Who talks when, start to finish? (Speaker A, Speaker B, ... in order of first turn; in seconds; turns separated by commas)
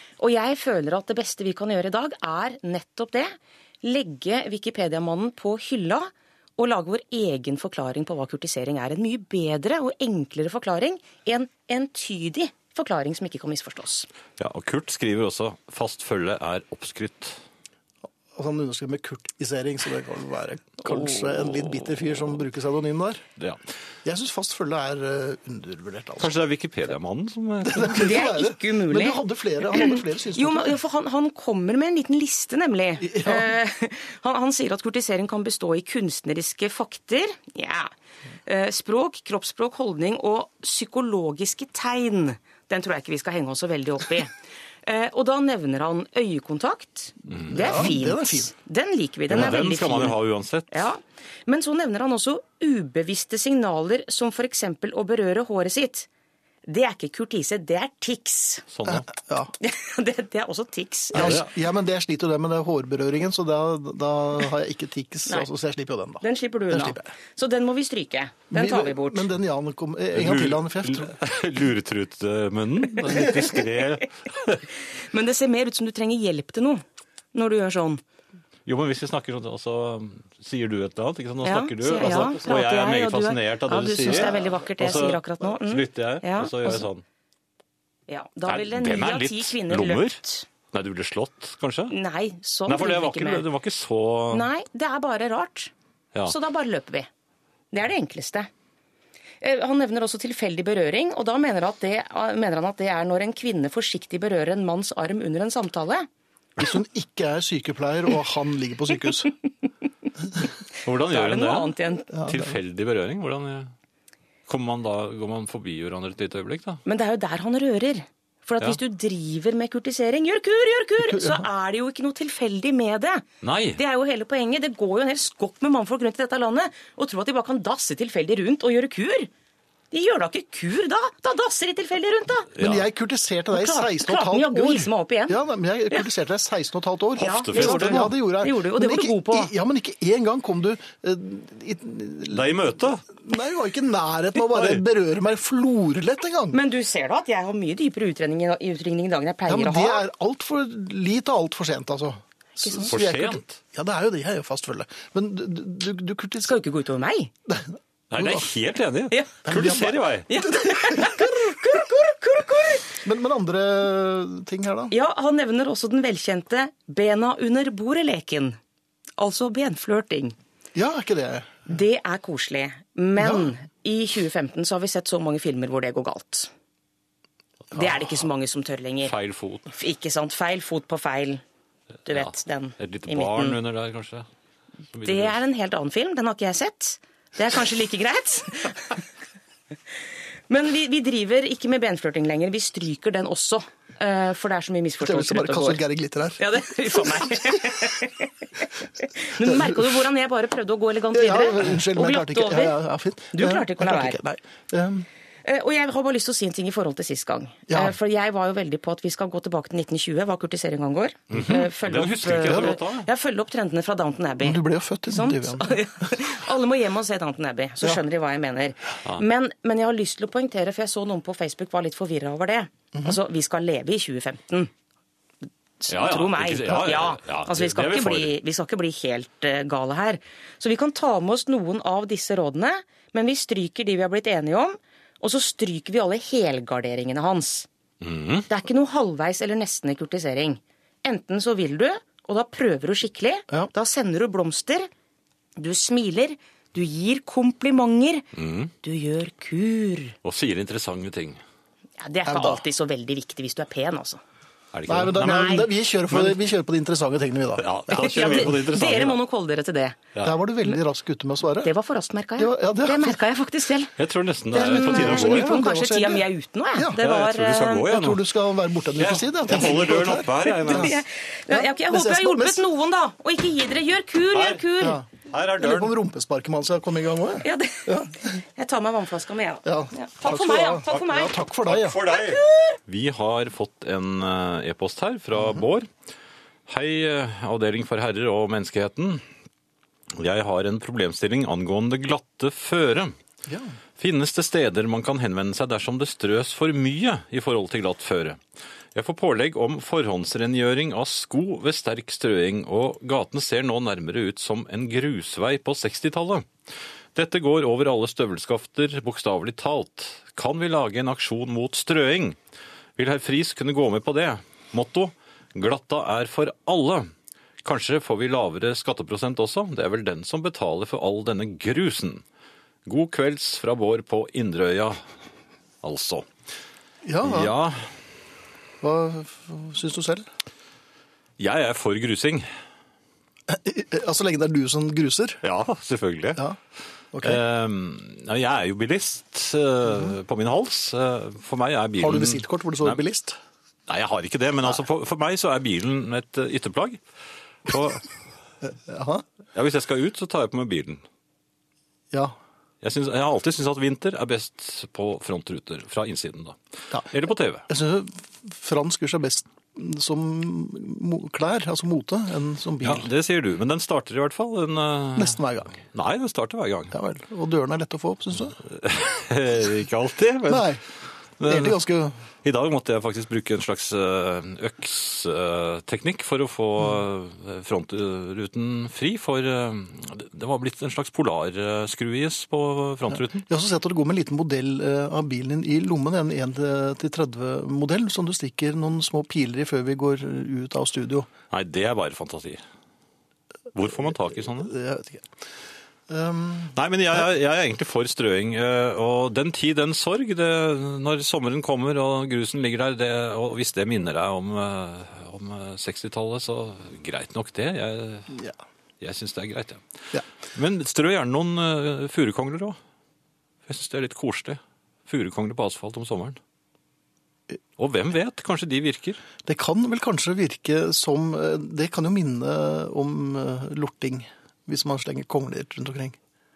Speaker A: 0.2-14.1, Speaker B: 14.4-17.4, Speaker C: 18.3-23.2, Speaker B: 20.8-22.3, Speaker C: 24.0-26.3, Speaker B: 26.2-28.1, Speaker C: 27.6-30.8, Speaker A: 27.9-37.9, Speaker C: 33.0-33.5, Speaker A: 38.5-50.2, Speaker C: 47.5-48.5, Speaker B: 49.3-50.9, Speaker A: 50.7-56.1, Speaker A: 56.6-58.6, Speaker B: 58.7-59.0, Speaker C: 58.9-59.5, Speaker A: 59.6-61.4, Speaker C: 61.1-67.1, Speaker B: 61.1-61.4, Speaker A: 66.2-69.3, Speaker C: 68.5-71.1, Speaker B: 70.1-74.6, Speaker A: 75.1-76.8, Speaker A: 77.3-78.0, Speaker B: 78.7-87.0, Speaker A: 81.4-86.8, Speaker A: 88.1-90.5, Speaker B: 88.5-91.9, Speaker A: 91.9-93.5, Speaker B: 92.7-94.5, Speaker A: 94.3-95.7, Speaker A: 96.2-97.1, Speaker A: 97.7-98.5, Speaker A: 99.4-106.1, Speaker C: 106.6-109.3, Speaker B: 110.8-113.7, Speaker A: 110.8-112.1, Speaker C: 112.1-112.5, Speaker B: 114.5-116.8, Speaker A: 116.8-129.3, Speaker C: 121.0-121.4, Speaker B: 123.4-123.8, Speaker A: 129.9-132.5, Speaker B: 132.6-132.8, Speaker C: 132.6-142.4, Speaker A: 133.5-135.4, Speaker A: 137.2-139.5, Speaker B: 137.2-138.1, Speaker B: 142.3-143.0, Speaker C: 143.1-146.6, Speaker B: 144.5-144.8, Speaker A: 146.5-150.0, Speaker C: 149.5-156.5, Speaker A: 152.6-152.9, Speaker B: 152.9-153.6, Speaker A: 156.4-157.3, Speaker C: 157.5-158.5, Speaker B: 158.1-160.3, Speaker A: 159.1-159.4, Speaker C: 159.4-161.6, Speaker A: 160.3-162.9, Speaker C: 163.0-164.9, Speaker A: 164.9-168.6, Speaker A: 169.2-170.3, Speaker C: 170.7-171.7, Speaker A: 171.7-176.5, Speaker C: 173.2-173.5, Speaker A: 177.7-179.1, Speaker B: 179.0-179.7, Speaker A: 179.7-181.4, Speaker A: 182.1-183.6, Speaker B: 182.1-184.3, Speaker B: 184.9-185.4, Speaker A: 185.0-189.0, Speaker A: 190.5-195.8, Speaker C: 195.0-196.4, Speaker A: 196.4-202.8, Speaker C: 199.4-200.0, Speaker C: 201.1-205.1, Speaker A: 203.3-204.2, Speaker A: 205.4-224.7, Speaker C: 207.7-207.9, Speaker B: 211.3-213.1, Speaker C: 214.4-215.8, Speaker A: 225.8-237.7, Speaker B: 225.9-228.3, Speaker B: 238.0-238.5, Speaker A: 238.5-244.9, Speaker A: 245.6-248.2, Speaker B: 248.3-248.7, Speaker A: 248.8-250.2, Speaker B: 250.2-251.4, Speaker A: 252.0-254.2, Speaker C: 252.2-252.6, Speaker B: 254.7-256.4, Speaker C: 254.9-258.3, Speaker A: 255.3-255.6, Speaker B: 257.6-259.2, Speaker A: 257.9-260.0, Speaker C: 260.2-261.7, Speaker A: 261.6-263.9, Speaker C: 262.4-263.2, Speaker B: 264.0-265.6, Speaker A: 264.5-267.9, Speaker C: 264.5-267.0, Speaker B: 266.9-268.2, Speaker C: 267.8-270.9, Speaker B: 268.9-271.0, Speaker A: 270.5-275.0, Speaker C: 271.5-272.6, Speaker B: 274.3-274.6, Speaker C: 274.8-278.1, Speaker B: 275.2-275.9, Speaker A: 277.4-281.4, Speaker C: 279.6-282.0, Speaker B: 281.6-285.9, Speaker A: 282.0-282.8, Speaker B: 286.7-289.2, Speaker B: 290.1-293.1, Speaker C: 293.5-293.8, Speaker B: 294.0-298.4, Speaker B: 298.9-306.5, Speaker B: 307.1-312.4, Speaker B: 313.0-317.1, Speaker B: 317.6-322.2, Speaker B: 322.9-325.0, Speaker B: 325.8-326.3, Speaker C: 327.0-327.5, Speaker B: 327.2-327.9, Speaker C: 328.8-330.2, Speaker B: 331.4-332.5, Speaker C: 333.5-335.4, Speaker B: 335.4-336.4, Speaker C: 337.1-337.4, Speaker B: 337.2-343.0, Speaker C: 342.0-343.4, Speaker B: 343.9-347.0, Speaker B: 347.6-348.1, Speaker C: 348.6-349.2, Speaker B: 349.5-351.0, Speaker B: 352.8-356.6, Speaker B: 357.1-357.7, Speaker C: 357.7-363.1, Speaker B: 362.8-366.9, Speaker C: 365.1-365.8, Speaker C: 366.9-368.6, Speaker B: 368.6-370.7, Speaker C: 370.5-370.8, Speaker B: 371.4-371.8, Speaker C: 371.4-372.2, Speaker B: 372.4-383.4, Speaker C: 383.3-391.3, Speaker B: 391.5-392.6, Speaker B: 393.7-394.7, Speaker C: 394.6-395.2, Speaker C: 396.1-396.7, Speaker B: 396.7-408.4, Speaker B: 409.0-409.8, Speaker B: 410.5-412.8, Speaker B: 413.7-416.4, Speaker B: 417.8-419.2, Speaker C: 419.4-426.2